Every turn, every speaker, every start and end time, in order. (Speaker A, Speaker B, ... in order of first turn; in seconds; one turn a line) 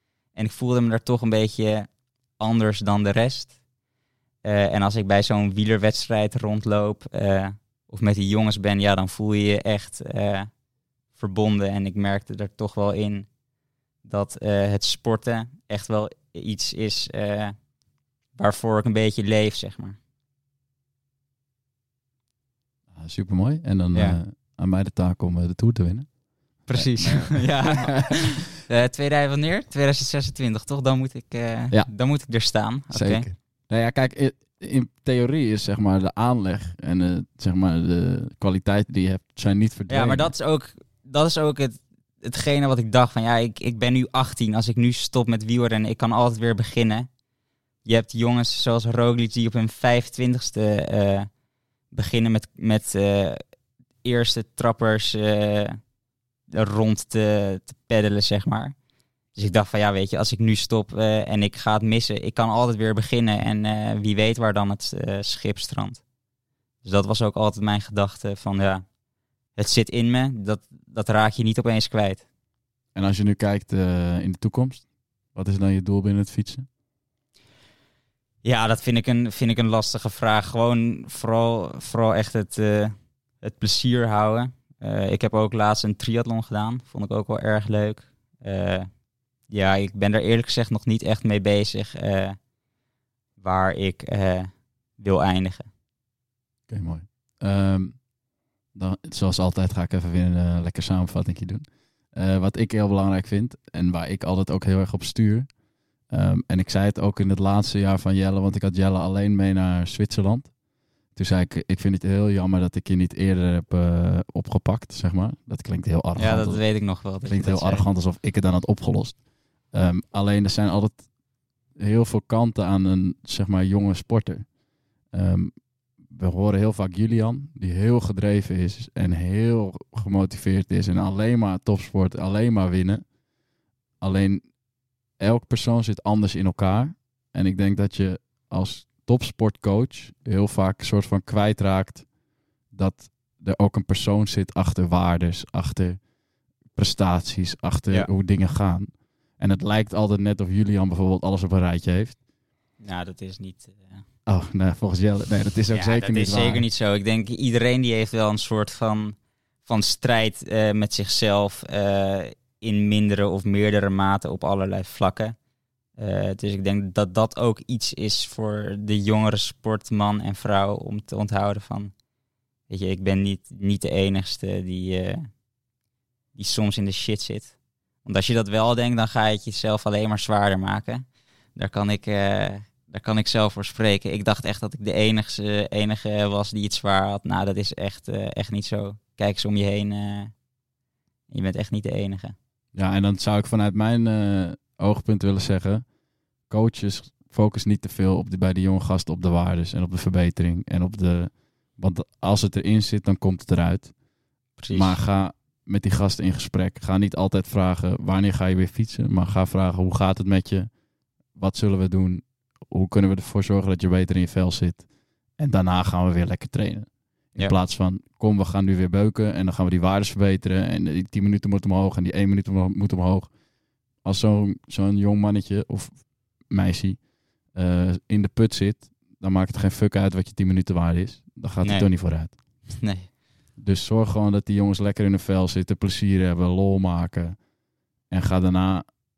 Speaker A: 0.3-1.9
Speaker A: 2.4-3.5
Speaker A: 4.4-10.5
Speaker A: 11.1-13.3
Speaker A: 14.0-17.5
Speaker A: 18.4-20.0
Speaker B: 22.9-28.1
Speaker A: 23.9-24.2
Speaker A: 26.7-33.2
Speaker B: 32.9-40.3
Speaker A: 39.9-47.1
Speaker A: 47.8-51.3
Speaker A: 51.9-53.4
Speaker A: 54.0-55.8
Speaker A: 56.5-58.7
Speaker A: 59.3-66.0
Speaker A: 66.8-68.8
Speaker A: 69.5-72.2
Speaker B: 72.9-76.7
Speaker A: 78.4-88.9
Speaker A: 89.5-92.4
Speaker A: 93.4-95.7
Speaker B: 96.7-98.0
Speaker B: 98.7-105.5
Speaker B: 106.1-110.5
Speaker B: 111.1-116.6
Speaker A: 116.2-117.8
Speaker B: 117.2-119.2
Speaker B: 119.7-121.0
Speaker B: 121.8-124.5
Speaker B: 125.1-125.5
Speaker B: 126.0-133.0
Speaker B: 134.0-134.5
Speaker B: 135.2-142.1
Speaker B: 142.7-146.0
Speaker B: 146.7-152.2
Speaker A: 152.8-154.0
Speaker B: 154.3-156.6
Speaker A: 155.7-165.3
Speaker A: 166.0-171.9
Speaker A: 172.7-175.3
Speaker A: 176.3-181.0
Speaker A: 181.6-190.3
Speaker A: 191.3-192.3
Speaker B: 192.7-195.8
Speaker B: 196.5-203.9
Speaker A: 204.6-204.9
Speaker B: 204.7-210.7
Speaker B: 211.3-214.9
Speaker B: 215.4-223.3
Speaker B: 224.0-232.3
Speaker A: 231.6-231.9
Speaker A: 232.7-233.1
Speaker B: 233.6-237.4
Speaker B: 238.1-238.9